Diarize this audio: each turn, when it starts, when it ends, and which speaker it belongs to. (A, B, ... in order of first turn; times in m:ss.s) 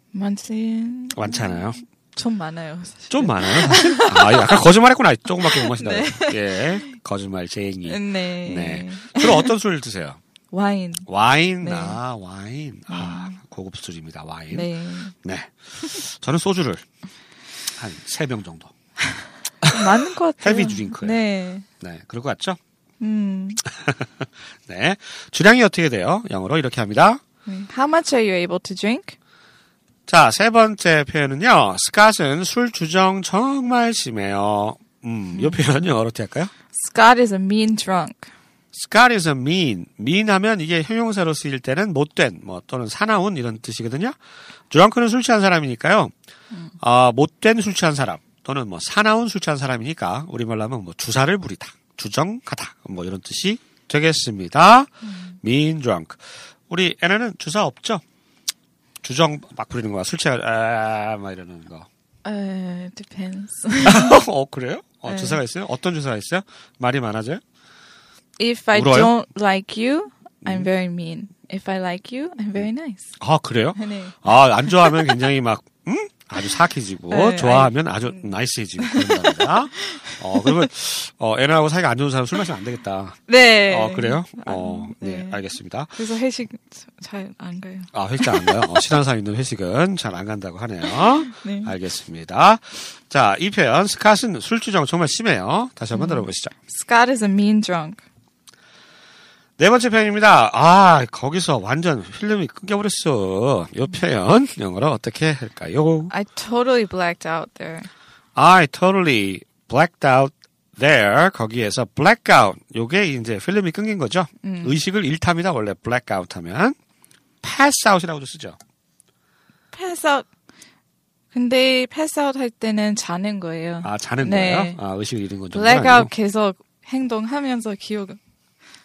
0:00.1-0:04.5 A
0:01.1-0:01.8 B
0:03.1-0:10.2 B
0:05.4-0:06.9 A
0:07.9-0:09.5 A
0:10.5-0:11.1 A
0:11.1-0:16.8 B
0:11.6-0:12.0 A
0:12.9-0:13.4 A
0:14.5-0:15.1 A
0:17.8-0:18.7 B
0:19.7-0:21.6 A
0:20.4-0:21.2 B
0:21.8-0:22.6 B
0:23.0-0:23.6 A
0:23.8-0:24.1 B
0:24.6-0:27.2 B
0:27.4-0:29.2 A
0:30.1-0:36.5 B
0:35.3-0:35.6 A
0:36.7-0:38.3 A
0:38.7-0:44.2 B
0:44.7-0:46.1 B
0:46.8-0:58.0 B
0:55.0-0:55.4 A
0:59.0-1:01.9 B
1:02.2-1:04.2 A
1:03.8-1:07.4 B
1:05.0-1:05.4 A
1:08.4-1:13.1 A
1:08.7-1:09.1 B
1:13.2-1:26.0 B
1:13.8-1:15.1 A
1:17.1-1:20.7 A
1:23.3-1:28.9 A
1:27.9-1:36.5 B
1:30.8-1:31.7 A
1:35.9-1:38.0 A
1:39.6-1:46.1 B
1:46.1-1:47.9 A
1:48.4-1:56.7 B
1:54.4-1:54.8 A
1:57.4-1:58.6 B
1:59.7-2:00.3 A
2:01.3-2:04.8 A
2:03.8-2:06.1 B
2:05.5-2:08.2 A